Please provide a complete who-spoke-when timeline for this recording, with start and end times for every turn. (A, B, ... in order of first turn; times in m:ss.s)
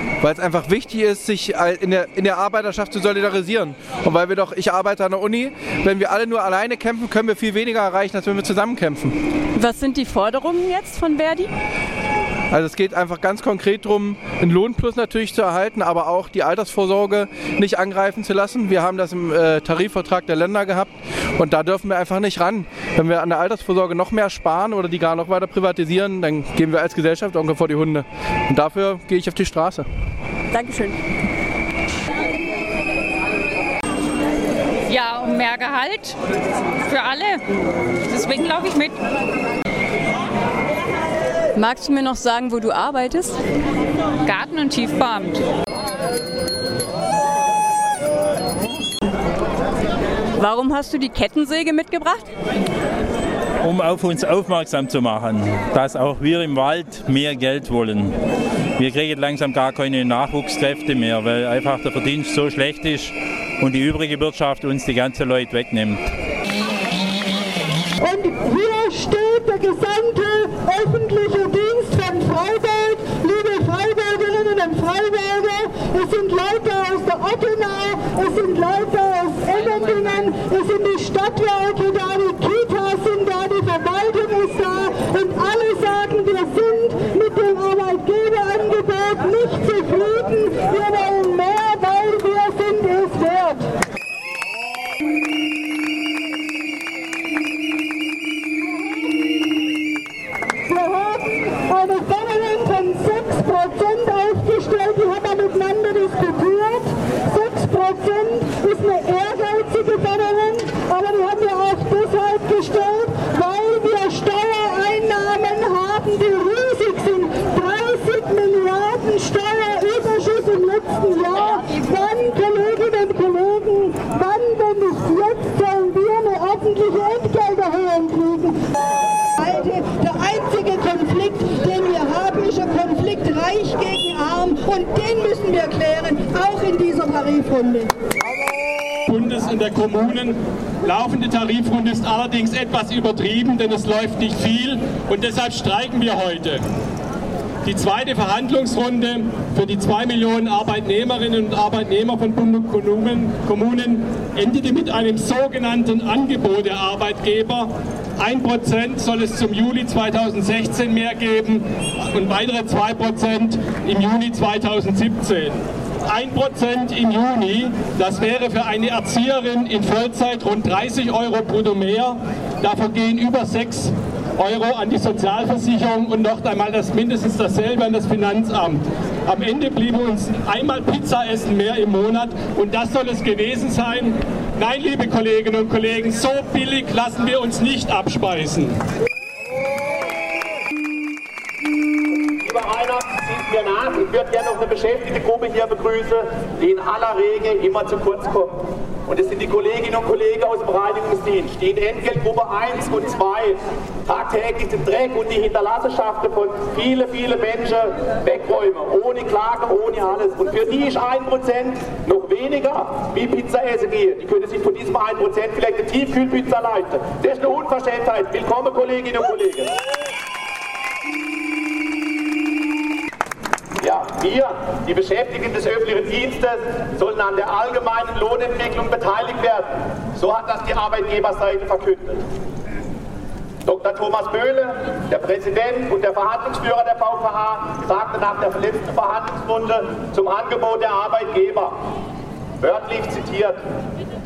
0:00.2-0:09.2 A
0:09.6-0:11.5 B
0:12.5-0:29.8 A
0:30.5-0:31.0 B
0:34.9-0:36.2 C
0:36.8-0:37.4 C
0:38.1-0:39.0 C
0:41.6-0:43.4 B
0:44.2-0:45.4 C
0:50.4-0:52.3 B
0:53.6-0:58.1 D
0:58.8-1:06.0 D
1:08.0-1:33.7 E
1:40.7-2:08.6 E
2:09.4-2:17.9 E
2:19.1-2:26.6 F
2:27.6-3:08.8 F
3:12.4-3:39.7 G
3:43.8-3:52.2 G
3:53.7-4:01.8 G
4:02.6-4:03.6 G